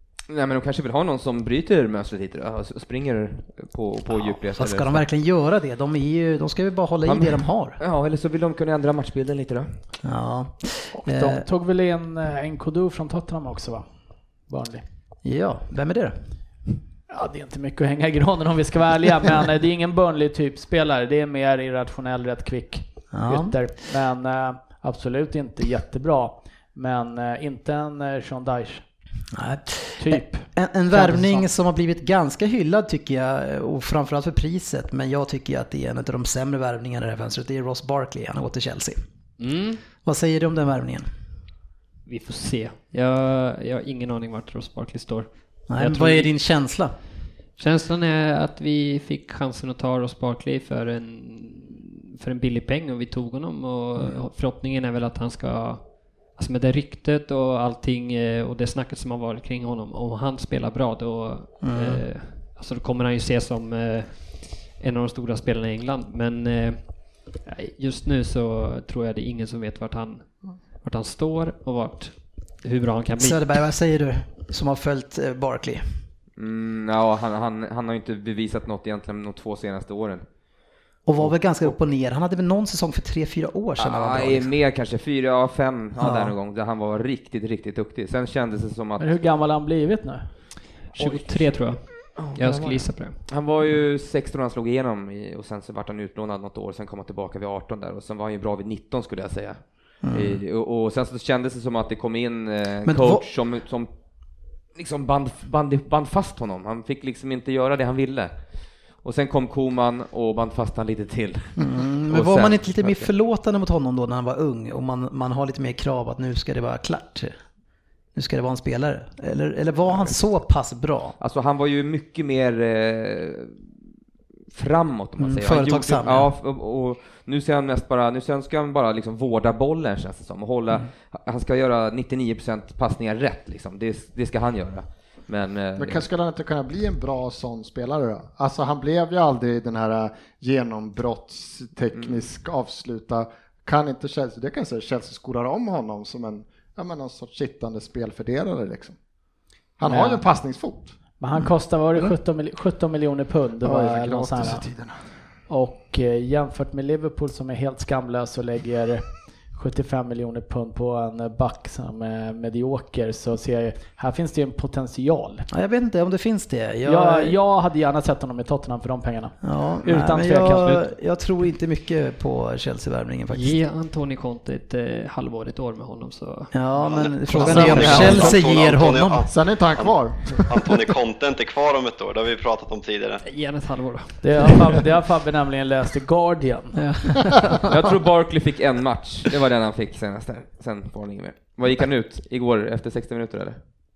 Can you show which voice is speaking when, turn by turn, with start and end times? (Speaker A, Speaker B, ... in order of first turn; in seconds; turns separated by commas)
Speaker A: 0.3-5.0, Speaker B: 4.5-7.8, Speaker A: 7.0-9.9, Speaker B: 10.0-11.4, Speaker C: 10.9-14.8, Speaker B: 15.2-16.1, Speaker C: 17.1-28.8, Speaker B: 23.1-23.7, Speaker B: 29.3-39.0, Speaker C: 30.0-31.5, Speaker D: 39.4-39.8, Speaker B: 40.0-41.0, Speaker D: 42.0-46.3, Speaker B: 45.7-47.0, Speaker D: 47.5-73.6, Speaker B: 54.0-54.2, Speaker B: 61.6-62.1, Speaker B: 73.2-76.0, Speaker A: 76.4-81.8, Speaker B: 81.0-84.5, Speaker A: 83.8-89.2, Speaker B: 86.0-86.3, Speaker C: 89.0-90.9, Speaker D: 90.9-93.3, Speaker A: 91.0-113.1, Speaker B: 100.0-100.4, Speaker B: 102.8-103.2, Speaker B: 111.6-117.5, Speaker B: 118.1-121.2, Speaker A: 121.2-123.7, Speaker A: 124.5-136.1, Speaker B: 125.2-126.3, Speaker E: 135.8-149.0, Speaker A: 141.9-142.2, Speaker E: 149.8-151.0, Speaker C: 149.8-150.2, Speaker C: 151.2-154.7, Speaker E: 153.6-155.0, Speaker C: 155.5-165.5, Speaker B: 165.5-167.4, Speaker C: 166.8-170.9, Speaker B: 169.4-173.6, Speaker D: 173.3-176.6, Speaker B: 176.5-179.3, Speaker F: 176.8-183.2, Speaker E: 177.3-178.7, Speaker D: 177.6-178.1, Speaker A: 177.8-178.3, Speaker E: 179.3-180.7, Speaker D: 183.2-184.7, Speaker C: 184.2-186.9, Speaker B: 186.7-187.5, Speaker A: 187.7-193.6